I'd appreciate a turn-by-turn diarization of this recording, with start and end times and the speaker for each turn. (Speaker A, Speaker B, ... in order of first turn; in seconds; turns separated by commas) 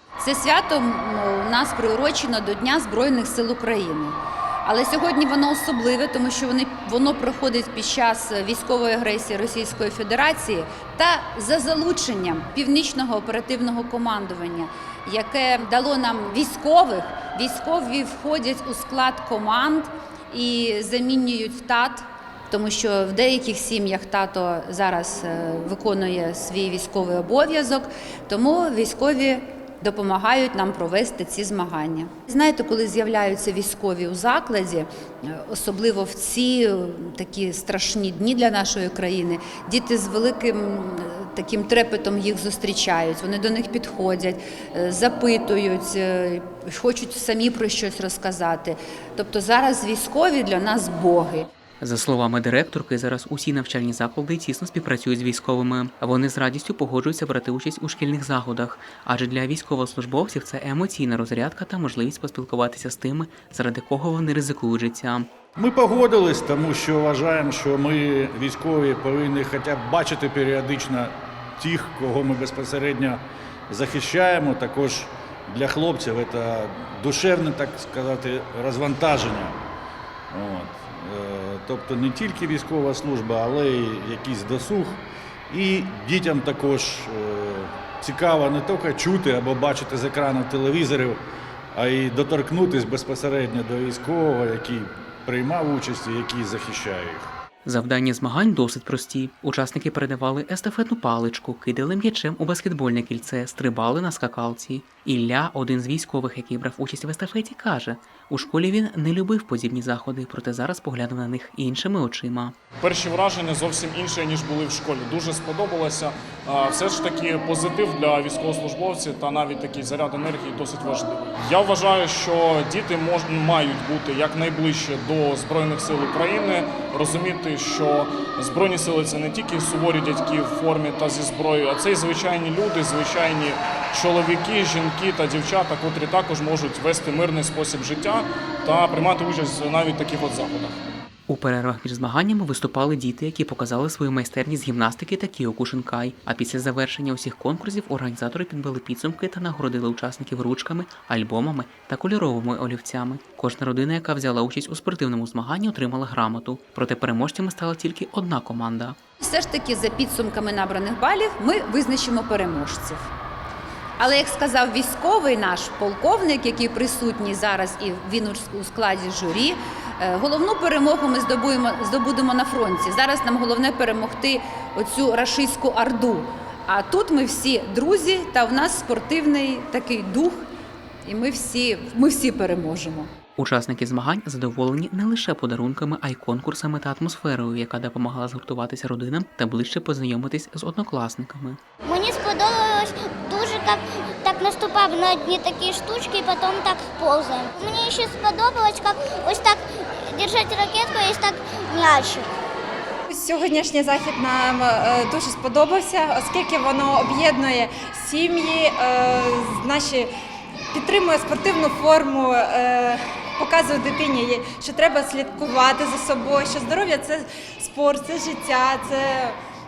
Speaker A: 0.2-51.5, Speaker B: 51.8-65.3, Speaker C: 65.5-79.6, Speaker C: 80.3-91.2, Speaker C: 91.7-97.3, Speaker B: 97.6-112.5, Speaker D: 112.8-140.8, Speaker B: 141.3-159.0, Speaker A: 159.2-163.1, Speaker A: 164.0-180.4, Speaker A: 181.0-183.1, Speaker B: 183.4-191.6, Speaker E: 191.8-202.3, Speaker F: 203.1-210.1, Speaker F: 210.7-219.3